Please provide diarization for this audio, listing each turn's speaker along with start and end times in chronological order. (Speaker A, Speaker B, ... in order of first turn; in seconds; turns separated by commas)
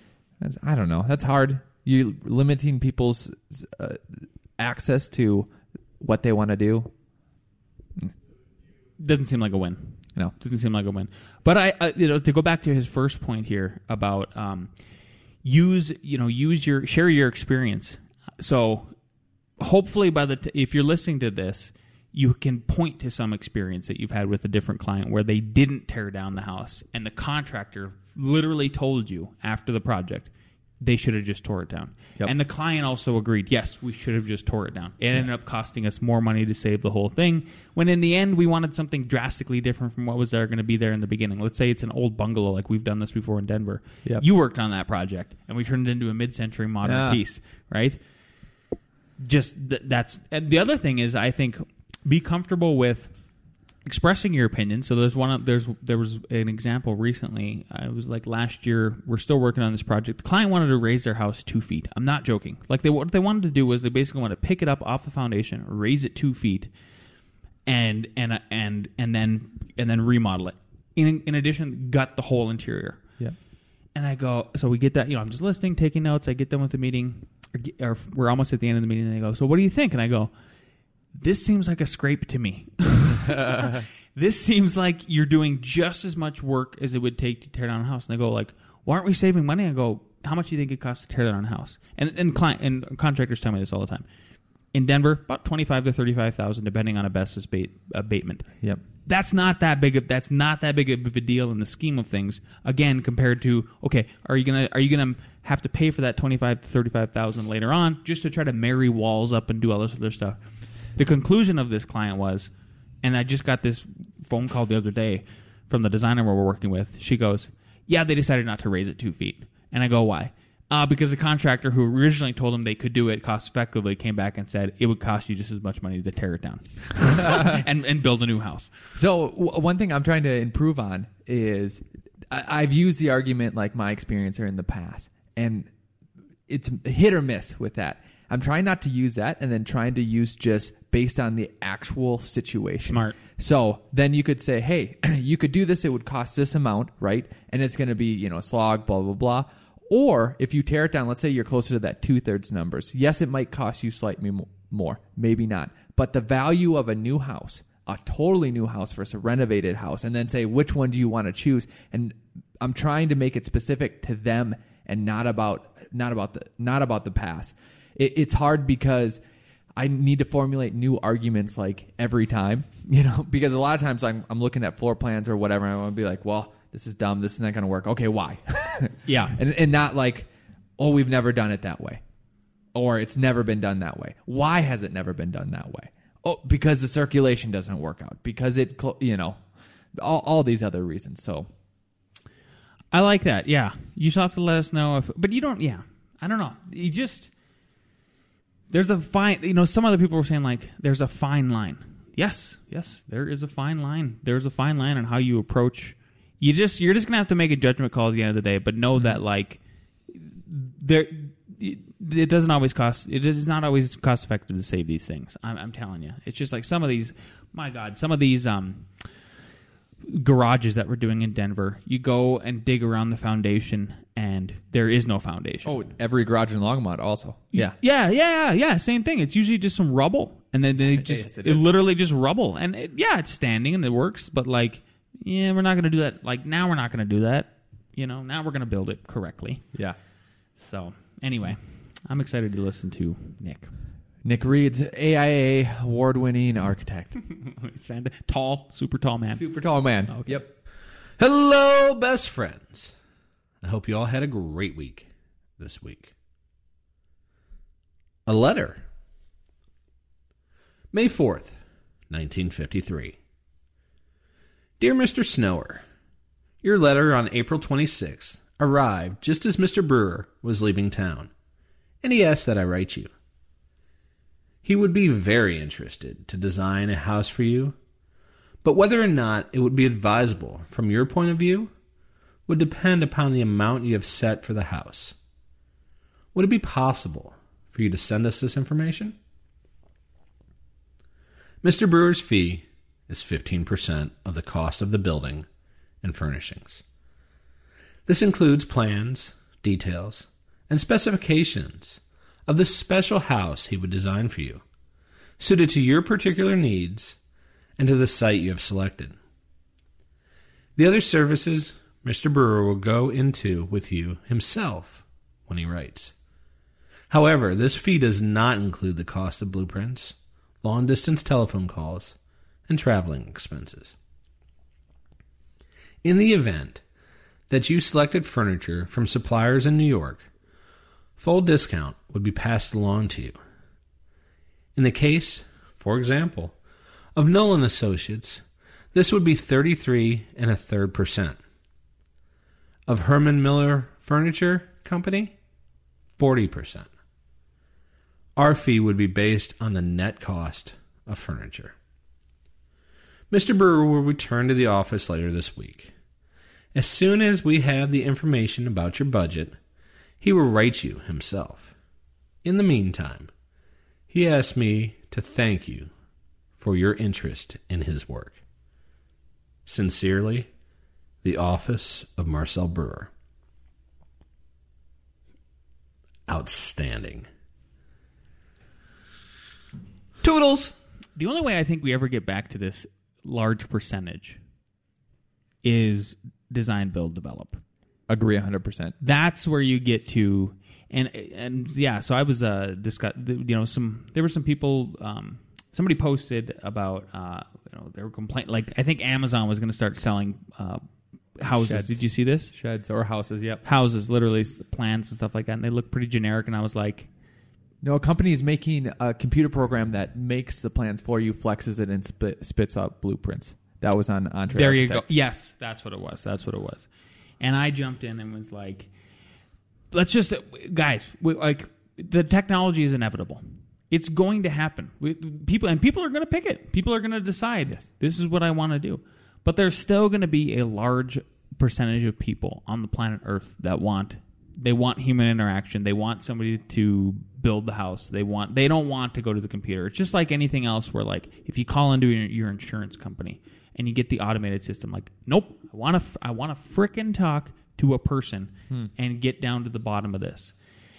Speaker A: 0.4-6.9, Speaker B: 9.0-14.7, Speaker B: 15.4-18.9, Speaker B: 19.6-48.0, Speaker A: 46.8-47.2, Speaker B: 49.2-53.1, Speaker B: 53.8-66.7, Speaker B: 67.7-73.0, Speaker B: 73.9-80.3, Speaker B: 81.1-94.0, Speaker B: 94.7-98.5, Speaker B: 99.0-110.4, Speaker B: 111.0-112.5, Speaker B: 113.0-128.7, Speaker A: 127.2-127.6, Speaker A: 128.9-135.7, Speaker A: 136.5-169.2, Speaker B: 142.9-143.2, Speaker A: 169.8-182.0, Speaker B: 179.1-179.4, Speaker A: 182.7-189.4, Speaker A: 189.9-191.5, Speaker B: 192.9-197.3, Speaker B: 198.7-209.6, Speaker B: 210.1-218.9, Speaker B: 220.0-225.8, Speaker A: 225.6-227.8, Speaker B: 227.5-239.6, Speaker A: 230.9-231.7, Speaker B: 240.6-243.7, Speaker A: 244.2-247.2, Speaker B: 247.2-249.4, Speaker A: 249.3-250.5, Speaker B: 250.1-250.4, Speaker C: 251.2-252.9, Speaker C: 253.6-256.1, Speaker C: 258.2-258.8, Speaker C: 260.9-261.6, Speaker C: 262.1-263.2, Speaker C: 264.8-265.8, Speaker C: 266.6-271.3, Speaker C: 272.0-273.1, Speaker C: 274.6-277.8, Speaker C: 278.6-281.7, Speaker C: 282.5-285.1, Speaker C: 286.3-289.2, Speaker C: 291.6-295.5, Speaker C: 296.0-296.8, Speaker C: 298.1-304.6, Speaker C: 305.4-307.2, Speaker C: 307.8-309.1, Speaker C: 310.8-316.1, Speaker C: 317.1-322.1, Speaker C: 322.7-323.9, Speaker C: 326.0-326.8, Speaker C: 327.5-330.3, Speaker C: 331.2-333.4, Speaker C: 334.7-336.5, Speaker C: 337.1-338.4, Speaker C: 338.9-341.4, Speaker C: 342.9-345.3, Speaker C: 346.2-346.9, Speaker C: 348.4-351.7, Speaker C: 353.3-355.9, Speaker C: 356.7-359.6, Speaker C: 360.2-361.7, Speaker C: 362.4-363.3, Speaker C: 364.1-365.9, Speaker C: 366.6-368.4, Speaker C: 369.6-370.5, Speaker C: 371.2-373.1, Speaker C: 376.3-377.3, Speaker B: 380.2-384.4, Speaker B: 385.6-387.6, Speaker A: 388.1-388.9, Speaker B: 389.0-400.8, Speaker B: 401.4-402.5, Speaker A: 401.5-403.6, Speaker B: 403.6-407.1, Speaker A: 407.8-415.1, Speaker B: 414.5-416.9, Speaker B: 417.4-418.9, Speaker B: 419.9-450.5